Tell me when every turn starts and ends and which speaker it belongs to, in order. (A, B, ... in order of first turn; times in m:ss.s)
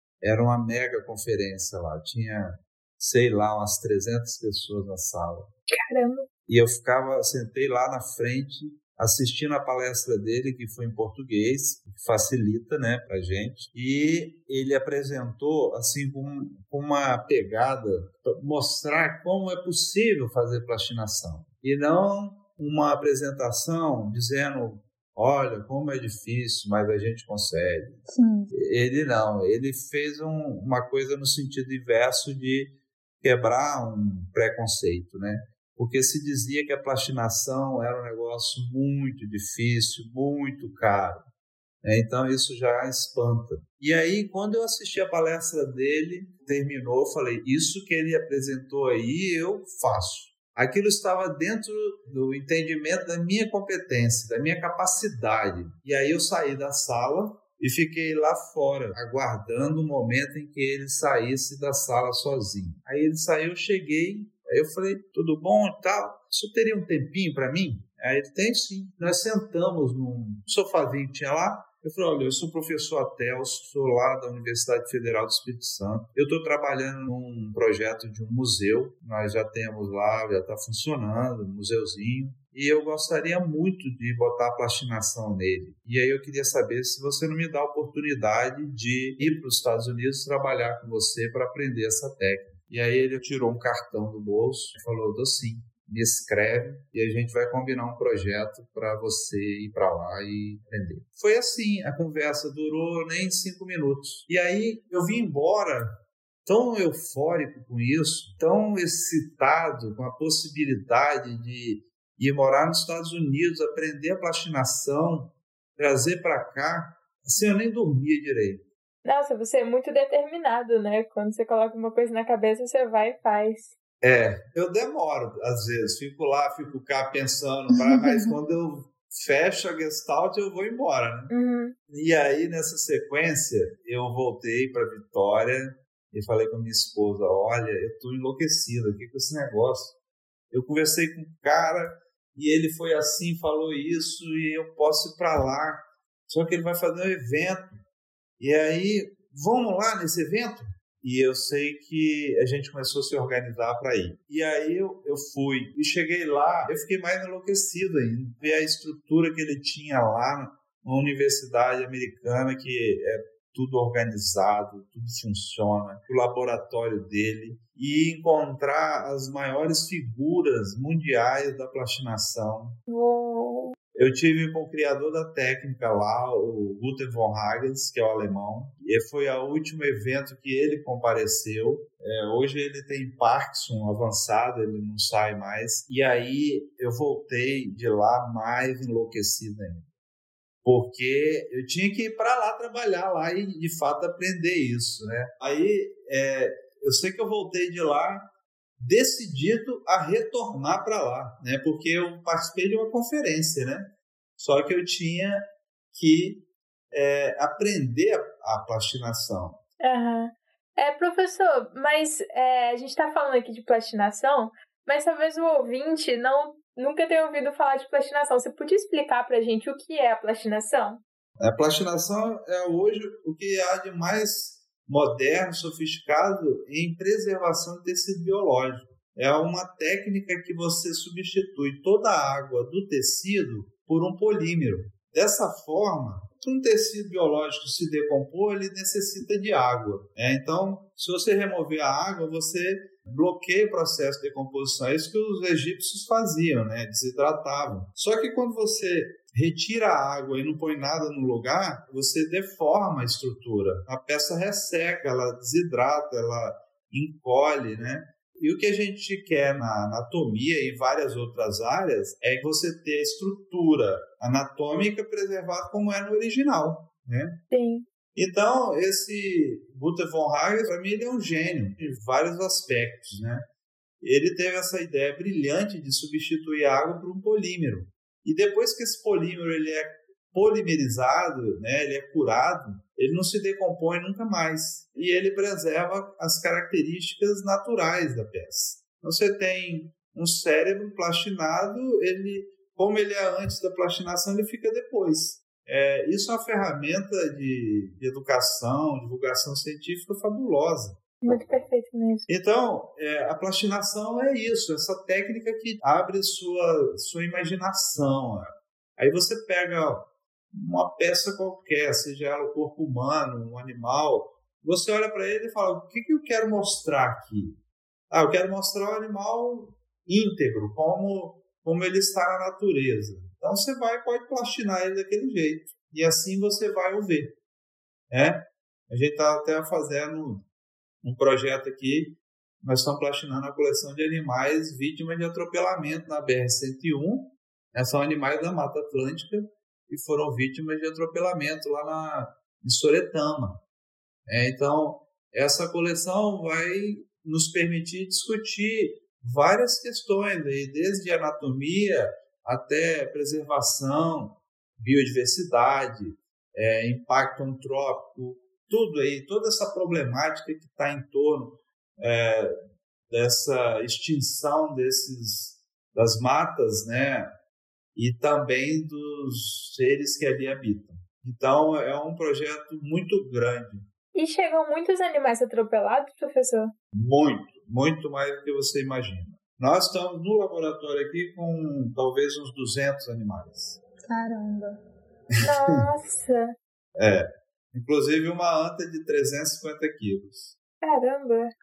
0:00.2-0:05.5 A
0:05.7-0:06.2 B
0:06.5-0:41.2 A
0:28.1-0:28.5 C
0:41.8-1:45.9 A
1:46.4-1:58.6 A
1:59.0-2:03.7 B
2:04.0-2:11.3 A
2:07.7-2:08.4 C
2:11.3-2:11.7 B
2:11.9-2:20.0 A
2:20.5-2:27.8 A
2:28.4-2:52.8 A
2:52.9-2:53.7 B
2:53.9-3:09.9 A
3:10.6-3:18.2 A
3:18.8-3:23.9 A
3:24.4-3:25.4 A
3:25.9-3:29.6 A
3:29.8-3:41.0 B
3:41.4-4:27.4 A
4:27.5-4:27.9 B
4:28.2-4:33.4 A
4:34.0-5:01.0 A
5:01.2-5:02.3 B
5:02.3-5:17.6 A
5:18.1-5:27.4 A
5:28.1-5:30.4 A
5:31.0-5:43.6 A
5:44.3-6:02.6 A
6:03.1-6:07.3 A
6:08.0-6:13.8 A
6:14.1-6:16.7 B
6:16.9-6:23.8 A
6:24.0-6:24.8 C
6:25.4-6:25.7 A
6:25.4-6:26.5 B
6:27.0-6:30.6 A
6:30.8-6:31.5 B